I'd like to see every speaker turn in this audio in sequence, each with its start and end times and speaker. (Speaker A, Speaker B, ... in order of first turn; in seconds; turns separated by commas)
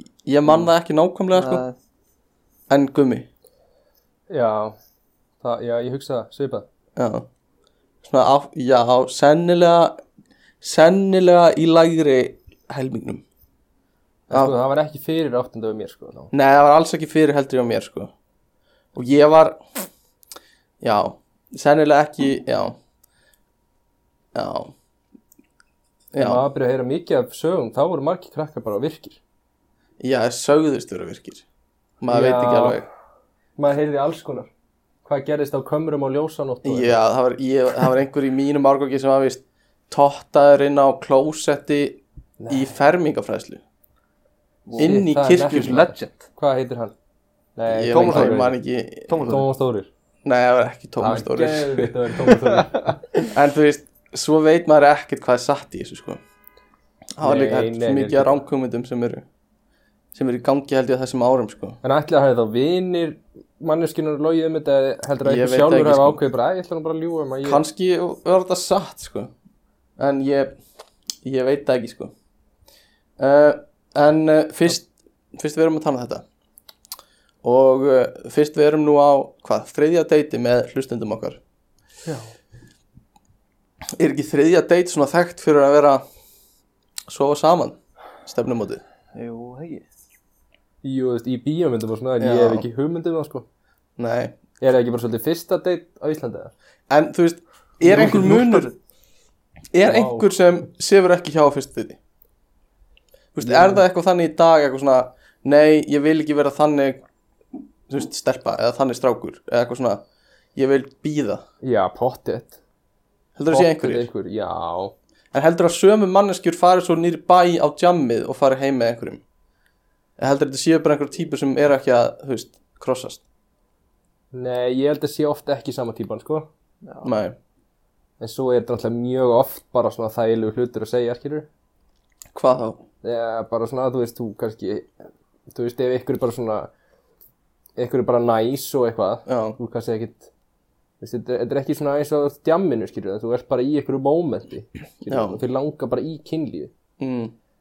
Speaker A: 0.2-1.6, Speaker B: 1.3-1.8, Speaker A: 2.7-3.3, Speaker C: 4.3-4.8, Speaker C: 5.4-6.7, Speaker A: 7.0-7.3, Speaker A: 8.0-10.0, Speaker A: 10.6-13.2, Speaker C: 14.3-16.3, Speaker A: 16.3-18.1, Speaker A: 18.9-19.6, Speaker A: 20.8-22.8, Speaker A: 24.3-24.7, Speaker A: 26.1-26.4, Speaker C: 26.2-29.2, Speaker A: 30.0-31.5, Speaker A: 32.0-32.9, Speaker C: 32.1-32.8, Speaker C: 33.6-34.5, Speaker C: 35.0-37.0, Speaker A: 36.6-43.6, Speaker C: 42.4-42.7, Speaker B: 44.6-46.2, Speaker C: 44.8-46.9, Speaker A: 44.8-45.9, Speaker C: 47.5-48.5, Speaker A: 47.7-49.4, Speaker B: 47.9-48.5, Speaker B: 49.1-49.5, Speaker C: 49.3-49.9, Speaker A: 50.2-51.9, Speaker C: 51.0-53.0, Speaker A: 53.3-56.2, Speaker A: 57.2-59.2, Speaker C: 57.2-58.4, Speaker A: 60.1-61.8, Speaker C: 61.8-67.6, Speaker A: 65.2-66.2, Speaker A: 67.4-69.3, Speaker A: 70.0-70.5, Speaker A: 71.2-72.1, Speaker A: 73.2-76.2, Speaker A: 77.4-81.4, Speaker A: 84.0-86.0, Speaker A: 87.1-88.8, Speaker B: 89.1-89.9, Speaker C: 90.8-93.5, Speaker A: 92.2-92.6, Speaker A: 94.0-94.4, Speaker C: 94.6-96.5, Speaker A: 96.9-98.7, Speaker B: 97.8-98.7, Speaker C: 97.9-98.3, Speaker A: 99.7-102.0, Speaker C: 99.8-100.3, Speaker A: 103.3-107.0, Speaker C: 103.4-103.8, Speaker A: 107.9-110.0, Speaker A: 110.5-111.4, Speaker C: 111.6-112.6, Speaker A: 113.4-114.1, Speaker C: 113.5-114.9, Speaker A: 115.3-119.2, Speaker A: 120.2-123.2, Speaker C: 124.3-126.5, Speaker B: 126.8-127.1, Speaker A: 127.0-127.4, Speaker C: 128.2-131.5, Speaker A: 132.3-132.8, Speaker C: 133.0-134.9, Speaker C: 135.5-136.7, Speaker C: 137.8-140.3, Speaker A: 139.3-139.6, Speaker C: 141.0-146.7, Speaker A: 145.1-145.4, Speaker A: 147.0-147.3